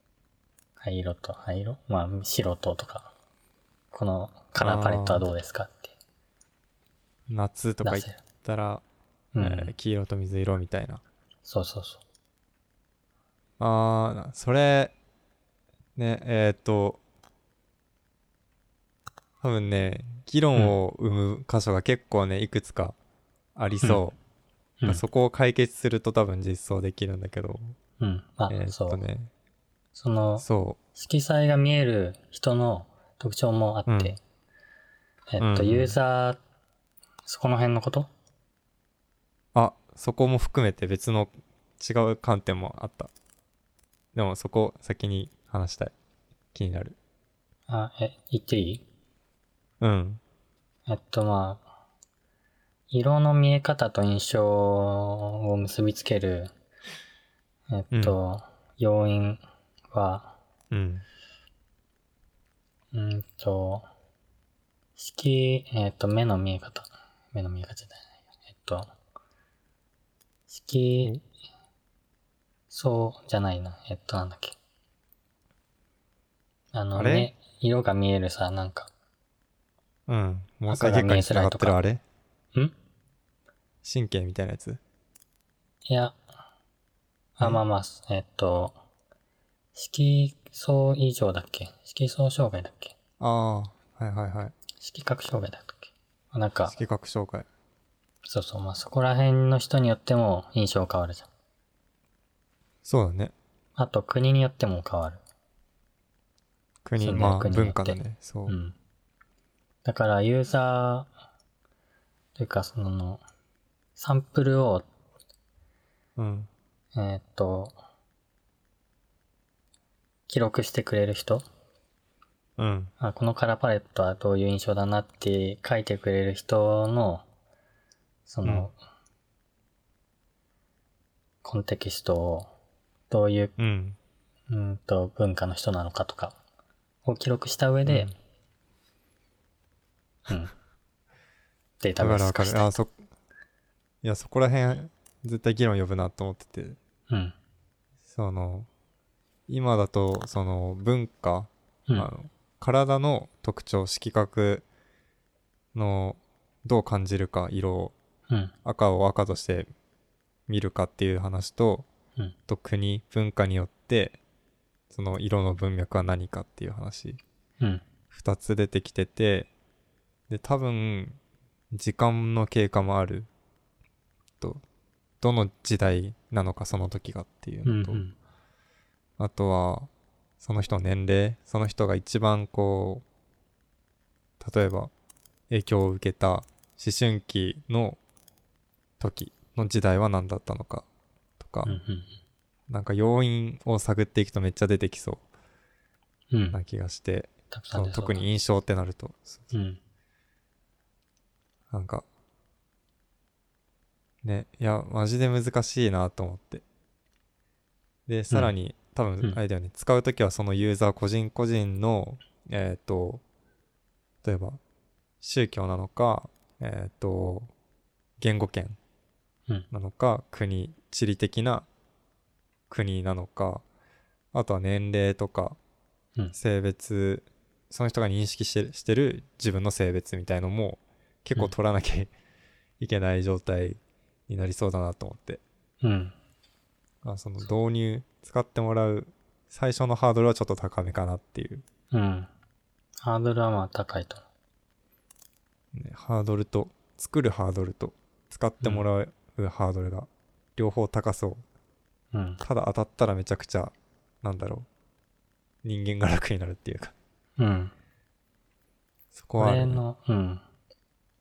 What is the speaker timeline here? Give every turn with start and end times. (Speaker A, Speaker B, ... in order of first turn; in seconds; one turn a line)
Speaker A: 0.8-3.1
Speaker A: 3.9-6.0
Speaker B: 4.6-5.2
Speaker B: 7.3-8.8
Speaker A: 7.8-8.2
Speaker A: 9.3-9.7
Speaker B: 9.4-11.0
Speaker A: 11.4-12.0
Speaker B: 13.6-14.9
Speaker B: 16.0-17.0
Speaker B: 19.4-23.0
Speaker B: 23.6-24.2
Speaker B: 24.8-27.8
Speaker A: 28.0-29.0
Speaker B: 28.5-29.3
Speaker A: 29.9-34.2
Speaker B: 30.4-30.8
Speaker B: 33.9-34.2
Speaker A: 35.3-36.4
Speaker B: 35.4-36.0
Speaker A: 37.3-38.1
Speaker B: 39.5-43.1
Speaker B: 44.1-45.9
Speaker B: 46.5-47.0
Speaker A: 47.7-48.9
Speaker B: 49.8-50.2
Speaker A: 50.9-51.6
Speaker A: 52.9-56.5
Speaker A: 57.7-60.4
Speaker B: 60.7-61.0
Speaker A: 62.9-63.9
Speaker A: 65.0-68.9
Speaker A: 70.5-71.2
Speaker A: 72.7-74.6
Speaker A: 76.7-78.9
Speaker B: 77.0-77.3
Speaker B: 80.1-82.0
Speaker A: 80.7-81.8
Speaker B: 83.8-84.8
Speaker A: 85.9-86.2
Speaker A: 87.4-88.8
Speaker A: 89.7-93.0
Speaker B: 93.2-94.5
Speaker A: 94.8-96.8
Speaker B: 96.7-97.5
Speaker A: 98.2-101.3
Speaker B: 102.8-103.3
Speaker A: 103.8-105.2
Speaker B: 106.8-108.6
Speaker A: 107.0-108.8
Speaker A: 109.8-111.1
Speaker A: 112.4-113.2
Speaker A: 114.0-114.9
Speaker B: 116.2-116.5
Speaker A: 116.9-117.8
Speaker A: 120.3-121.5
Speaker B: 122.6-122.9
Speaker A: 123.0-127.3
Speaker A: 128.3-128.8
Speaker B: 128.4-128.7
Speaker A: 131.4-132.5
Speaker A: 133.1-133.6
Speaker B: 133.6-134.0
Speaker A: 134.5-136.4
Speaker A: 137.1-138.1
Speaker B: 137.9-138.1
Speaker A: 140.3-140.5
Speaker A: 141.8-142.8
Speaker B: 142.0-143.0
Speaker B: 144.0-146.8
Speaker A: 147.1-147.3
Speaker B: 148.1-148.7
Speaker B: 149.5-154.7
Speaker B: 155.7-157.9
Speaker B: 158.7-159.7
Speaker B: 160.5-161.9
Speaker B: 162.5-164.2
Speaker B: 164.9-167.2
Speaker B: 168.1-169.5
Speaker B: 170.3-171.2
Speaker B: 171.7-173.3
Speaker B: 175.2-178.0
Speaker A: 177.7-178.2
Speaker B: 179.2-179.9
Speaker B: 180.4-183.0
Speaker B: 184.4-184.9
Speaker B: 185.5-188.0
Speaker B: 189.0-190.9
Speaker B: 191.4-191.8
Speaker A: 191.7-192.1
Speaker B: 192.7-195.2
Speaker A: 196.3-196.6
Speaker B: 196.5-199.4
Speaker A: 197.5-198.2
Speaker A: 199.5-199.8
Speaker B: 201.7-202.1
Speaker B: 204.2-206.6
Speaker B: 208.1-213.2
Speaker B: 214.2-214.6
Speaker B: 215.2-217.5
Speaker B: 218.2-218.8
Speaker B: 219.7-221.7
Speaker B: 222.7-223.6
Speaker B: 224.3-225.6
Speaker B: 226.3-232.1
Speaker B: 232.8-235.4
Speaker A: 235.8-236.2
Speaker B: 237.0-241.6
Speaker A: 241.9-242.3
Speaker A: 243.0-244.2
Speaker B: 245.7-251.4
Speaker A: 252.1-252.4
Speaker B: 252.4-254.7
Speaker B: 255.6-256.9
Speaker A: 257.4-257.7
Speaker B: 259.1-259.8
Speaker A: 259.4-260.4